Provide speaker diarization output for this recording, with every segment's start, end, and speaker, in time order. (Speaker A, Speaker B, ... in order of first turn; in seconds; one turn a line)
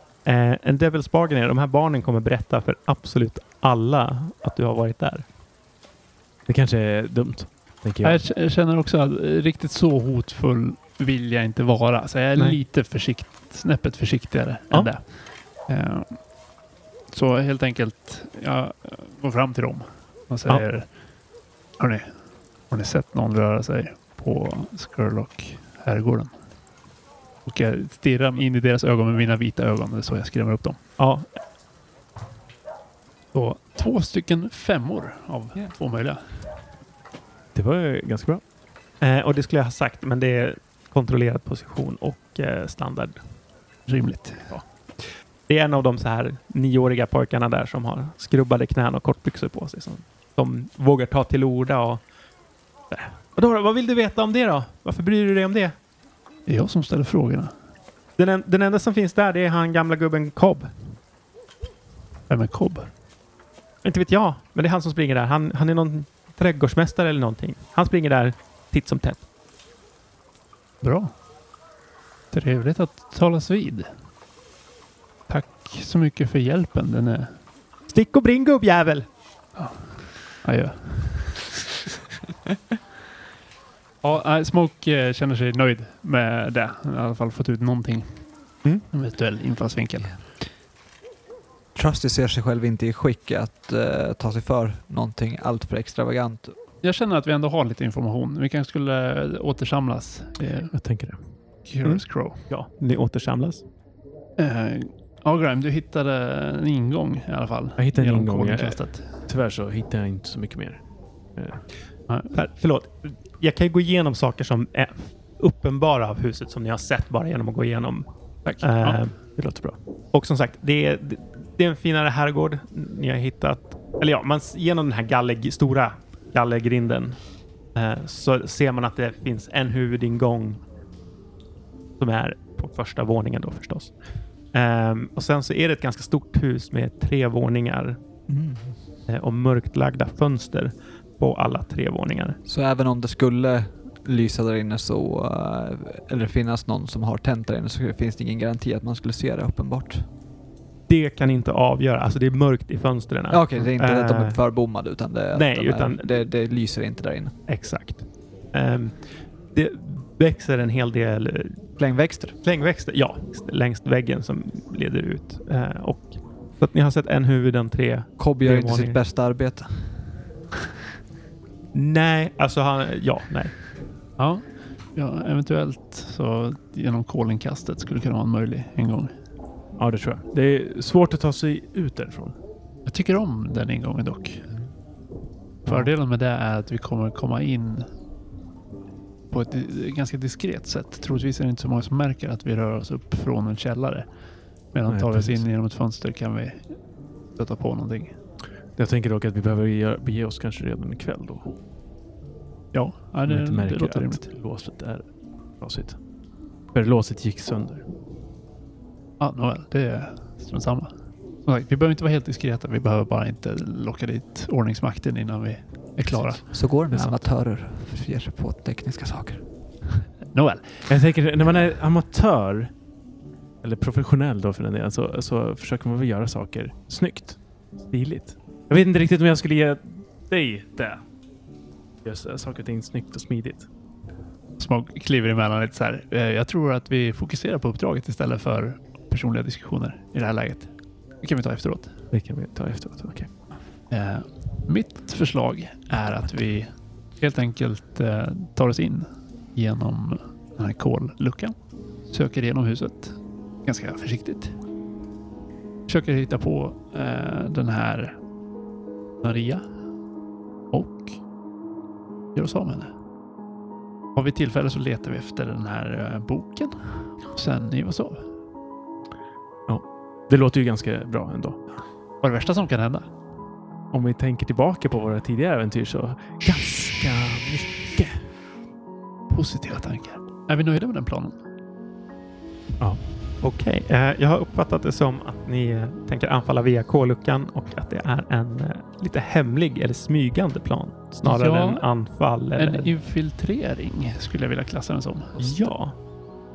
Speaker A: 0.2-5.2
Speaker B: 6.5-8.2
Speaker C: 8.0-16.2
Speaker C: 17.1-20.9
Speaker C: 21.8-22.1
Speaker C: 22.7-26.4
Speaker C: 27.4-30.8
Speaker A: 31.0-31.3
Speaker C: 33.3-36.5
Speaker B: 37.5-38.4
Speaker A: 39.0-43.2
Speaker C: 43.9-44.6
Speaker A: 44.5-52.0
Speaker A: 52.9-55.8
Speaker C: 56.5-57.5
Speaker A: 58.2-61.0
Speaker C: 62.3-62.9
Speaker A: 63.8-69.2
Speaker C: 70.8-71.1
Speaker C: 72.3-73.9
Speaker C: 75.3-77.3
Speaker A: 77.9-79.1
Speaker C: 79.5-81.5
Speaker C: 84.0-88.2
Speaker C: 88.8-90.2
Speaker D: 91.7-96.5
Speaker C: 96.8-100.7
Speaker B: 100.7-101.2
Speaker C: 101.6-102.5
Speaker A: 101.8-103.7
Speaker C: 104.4-109.2
Speaker B: 107.8-110.8
Speaker B: 111.3-111.6
Speaker A: 112.3-118.1
Speaker C: 118.4-119.0
Speaker A: 118.6-119.5
Speaker B: 119.4-119.7
Speaker A: 120.1-127.2
Speaker A: 127.7-130.6
Speaker A: 132.0-133.9
Speaker A: 134.5-138.0
Speaker D: 138.3-138.8
Speaker A: 139.1-142.4
Speaker D: 142.4-150.0
Speaker A: 150.9-154.4
Speaker D: 153.3-157.3
Speaker A: 155.3-156.3
Speaker A: 157.5-161.7
Speaker D: 161.8-162.3
Speaker A: 162.4-169.0
Speaker D: 168.2-170.1
Speaker A: 171.7-173.6
Speaker C: 174.2-179.1
Speaker B: 179.8-182.3
Speaker C: 182.8-184.6
Speaker B: 185.6-185.9
Speaker C: 185.6-187.9
Speaker C: 189.3-194.1
Speaker C: 194.7-196.8
Speaker B: 194.9-195.4
Speaker C: 197.3-198.2
Speaker B: 198.8-201.5
Speaker C: 202.7-204.3
Speaker B: 203.2-205.1
Speaker B: 205.6-206.0
Speaker B: 206.7-207.8
Speaker C: 209.2-216.5
Speaker D: 216.4-219.4
Speaker C: 220.3-220.8
Speaker B: 220.9-222.7
Speaker B: 223.6-231.0
Speaker B: 232.0-233.7
Speaker C: 234.6-241.9
Speaker B: 242.1-243.3
Speaker C: 243.9-254.6
Speaker C: 255.9-258.2
Speaker C: 259.2-259.6
Speaker C: 260.7-261.1
Speaker C: 262.3-262.9
Speaker C: 264.1-268.3
Speaker B: 269.7-271.7
Speaker C: 272.2-273.1
Speaker B: 273.9-278.2
Speaker C: 279.3-281.4
Speaker A: 283.4-292.9
Speaker C: 291.2-291.9
Speaker C: 292.6-295.7
Speaker A: 295.4-295.9